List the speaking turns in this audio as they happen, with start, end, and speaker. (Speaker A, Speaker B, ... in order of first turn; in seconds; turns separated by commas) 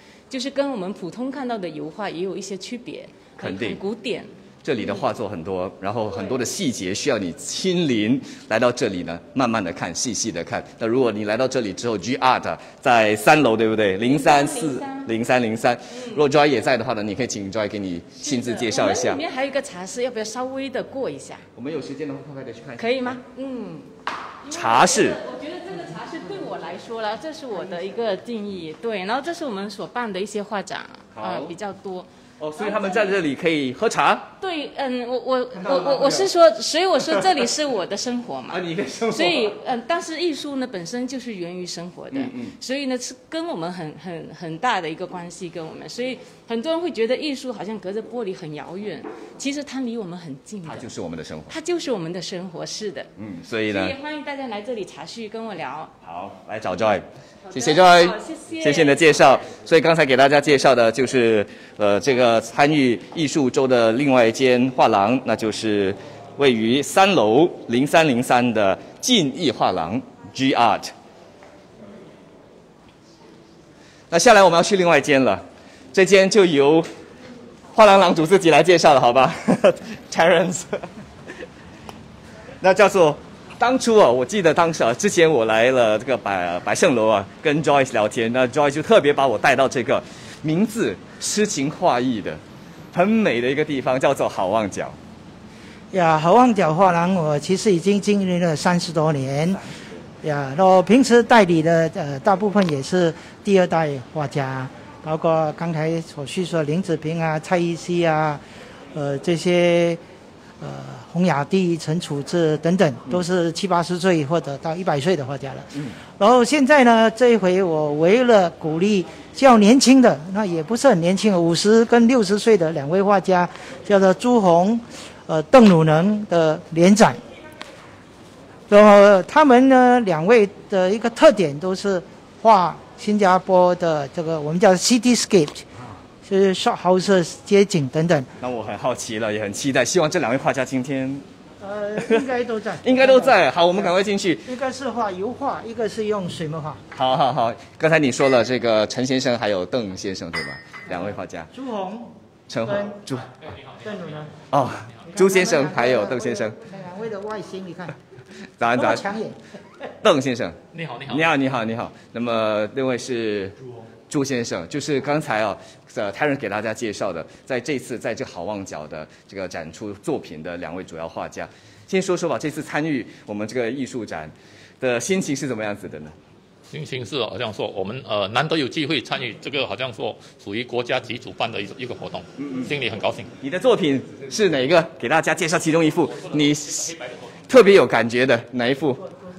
Speaker A: 0.3-5.0, Speaker B: 3.4-3.8, Speaker B: 4.6-19.2, Speaker A: 14.0-15.1, Speaker A: 15.9-16.2, Speaker A: 18.2-21.4, Speaker B: 21.6-23.2, Speaker A: 22.8-23.9, Speaker A: 24.4-33.2, Speaker B: 24.5-25.2, Speaker B: 31.1-31.5, Speaker B: 32.4-34.3, Speaker A: 34.4-50.9, Speaker B: 35.5-36.3, Speaker B: 38.5-39.5, Speaker B: 42.1-42.5, Speaker B: 50.6-51.5, Speaker A: 51.5-53.1, Speaker B: 53.2-54.0, Speaker A: 53.6-55.9, Speaker B: 56.0-70.9, Speaker A: 57.5-59.4, Speaker B: 74.1-76.9, Speaker B: 77.7-80.9, Speaker B: 82.6-92.4, Speaker B: 92.9-95.0, Speaker C: 95.9-99.6, Speaker C: 100.2-108.4, Speaker C: 108.9-110.0, Speaker C: 110.6-127.2, Speaker C: 128.7-135.7, Speaker C: 136.2-138.3, Speaker B: 138.4-141.2, Speaker C: 141.6-143.9, Speaker B: 142.0-142.3, Speaker B: 142.8-144.5, Speaker C: 144.4-146.8, Speaker B: 146.9-151.5, Speaker C: 151.5-153.0, Speaker B: 152.5-153.3, Speaker D: 153.3-154.1, Speaker C: 153.8-154.3, Speaker B: 154.5-156.6, Speaker C: 155.1-157.9, Speaker B: 158.6-159.0, Speaker C: 158.7-159.4, Speaker B: 160.0-163.6, Speaker D: 160.7-161.3, Speaker B: 164.1-176.1, Speaker D: 176.7-183.3, Speaker B: 182.4-182.7, Speaker B: 183.4-186.9, Speaker D: 186.1-187.4, Speaker B: 187.5-189.0